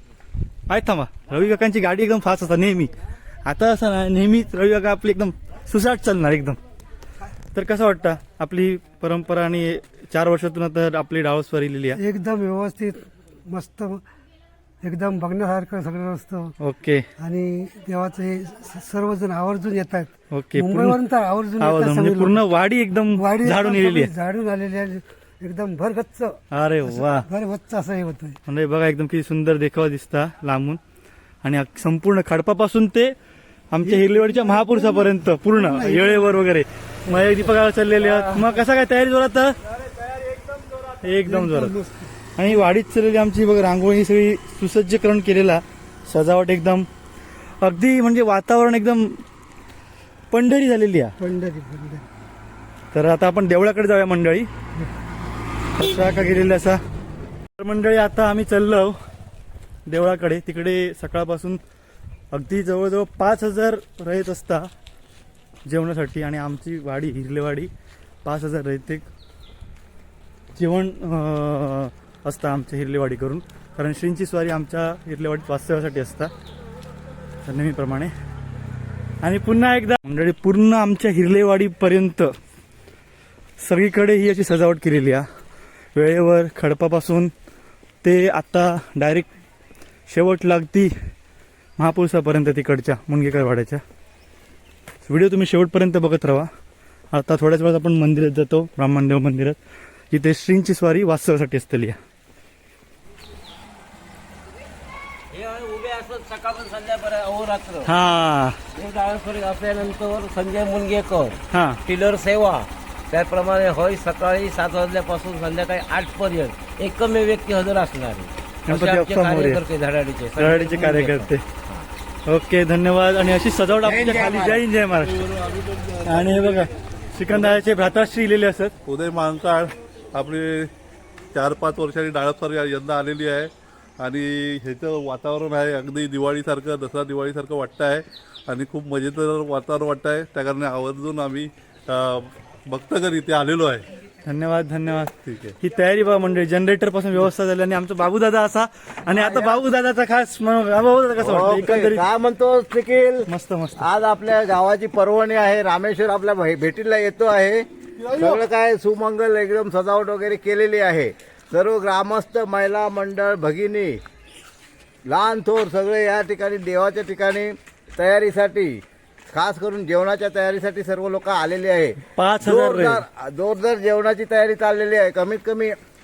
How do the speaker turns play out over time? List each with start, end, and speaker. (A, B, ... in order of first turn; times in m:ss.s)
0:00.7-0:02.9 A
0:03.4-0:06.6 A
0:07.5-0:12.0 A
0:11.9-0:14.0 B
0:14.8-0:16.5 B
0:16.6-0:17.0 A
0:17.2-0:22.4 B
0:20.3-0:21.0 A
0:21.6-0:24.1 A
0:23.1-0:28.4 B
0:26.5-0:27.3 A
0:28.5-0:30.8 A
0:31.4-0:33.1 A
0:33.7-0:39.6 A
0:33.8-0:36.4 B
0:41.0-0:41.8 A
0:41.3-0:42.0 B
0:42.4-0:46.9 A
0:47.6-0:49.2 A
0:50.3-0:51.1 A
0:51.2-0:52.0 B
0:52.9-0:54.5 A
0:55.8-0:56.8 A
0:57.6-0:59.0 A
0:59.8-1:01.6 A
1:02.3-1:04.7 A
1:05.6-1:07.7 A
1:08.2-1:09.0 A
1:10.5-1:16.3 A
1:17.4-1:18.1 A
1:19.2-1:22.3 A
1:23.6-1:25.2 A
1:25.9-1:27.3 A
1:28.0-1:29.3 A
1:30.1-1:30.9 A
1:31.8-1:33.8 A
1:35.0-1:36.5 A
1:37.1-1:39.6 A
1:40.1-1:42.0 A
1:45.3-1:47.9 C
1:47.8-1:48.6 A
1:48.8-2:01.8 C
1:51.5-1:51.8 A
1:58.7-1:59.6 A
2:00.4-2:01.4 A
2:02.3-2:05.2 A
2:03.9-2:04.6 C
2:04.9-2:06.7 D
2:06.0-2:08.7 A
2:07.3-2:07.6 D
2:08.9-2:10.7 D
2:11.3-2:23.8 D
2:24.2-2:32.0 A
2:25.2-2:25.5 D
2:29.1-2:29.6 E
2:31.2-2:33.3 E
2:33.3-2:33.9 A
2:33.8-2:44.0 E
2:45.1-2:48.8 E
2:49.3-2:55.7 E
2:52.2-2:53.0 A